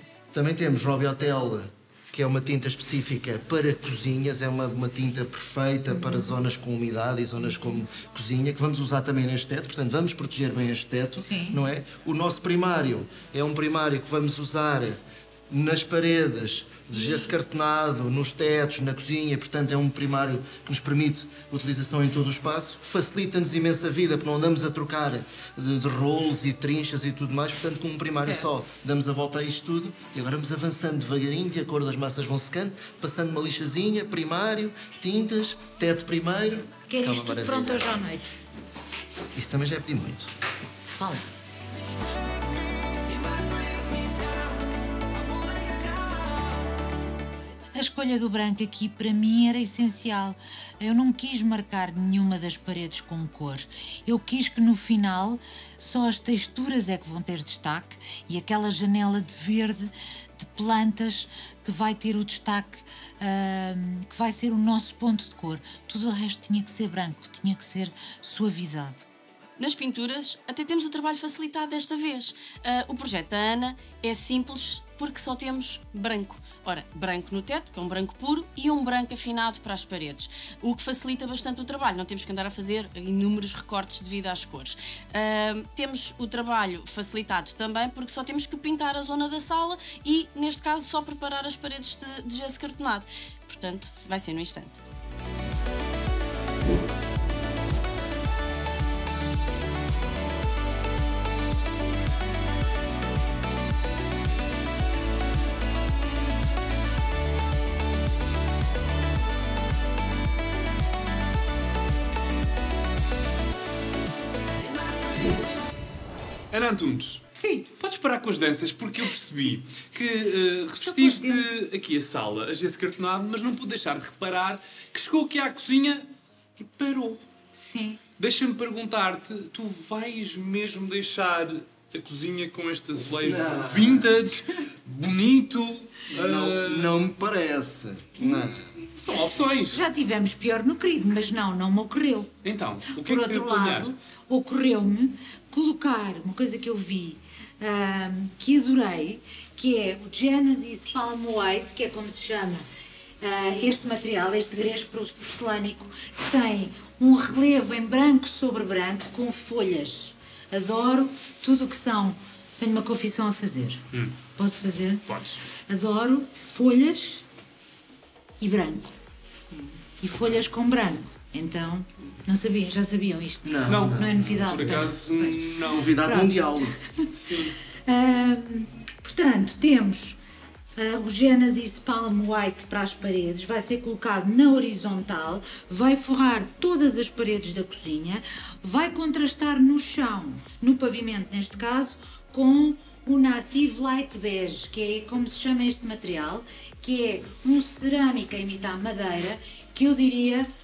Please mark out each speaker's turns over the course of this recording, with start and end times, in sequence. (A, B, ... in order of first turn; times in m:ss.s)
0:00.3-0:15.0 A
0:11.2-0:11.6 B
0:15.5-0:38.0 A
0:28.1-0:28.5 B
0:36.9-0:38.3 B
0:39.3-0:40.3 A
0:40.9-0:41.3 B
0:47.7-1:09.0 B
1:09.6-1:34.8 C
1:56.5-2:06.0 D
1:57.4-1:57.6 B
2:00.8-2:01.4 B
2:06.6-2:07.2 D
2:07.5-2:08.0 B
2:08.2-2:17.1 D
2:13.2-2:14.1 A
2:16.1-2:18.6 A
2:18.9-2:19.8 D
2:19.7-2:22.3 B
2:22.4-2:24.1 D
2:22.9-2:32.6 B
2:33.2-2:43.8 B
2:44.4-2:45.0 B
2:45.1-2:45.4 D
2:45.7-2:47.2 B
2:48.4-2:48.9 B
2:50.0-2:55.5 B
2:53.4-2:54.8 A
2:53.7-2:55.9 D
2:55.7-2:56.7 A
2:56.0-2:56.4 B
2:57.1-2:57.5 D
2:57.9-3:00.2 B
3:00.8-3:20.5 B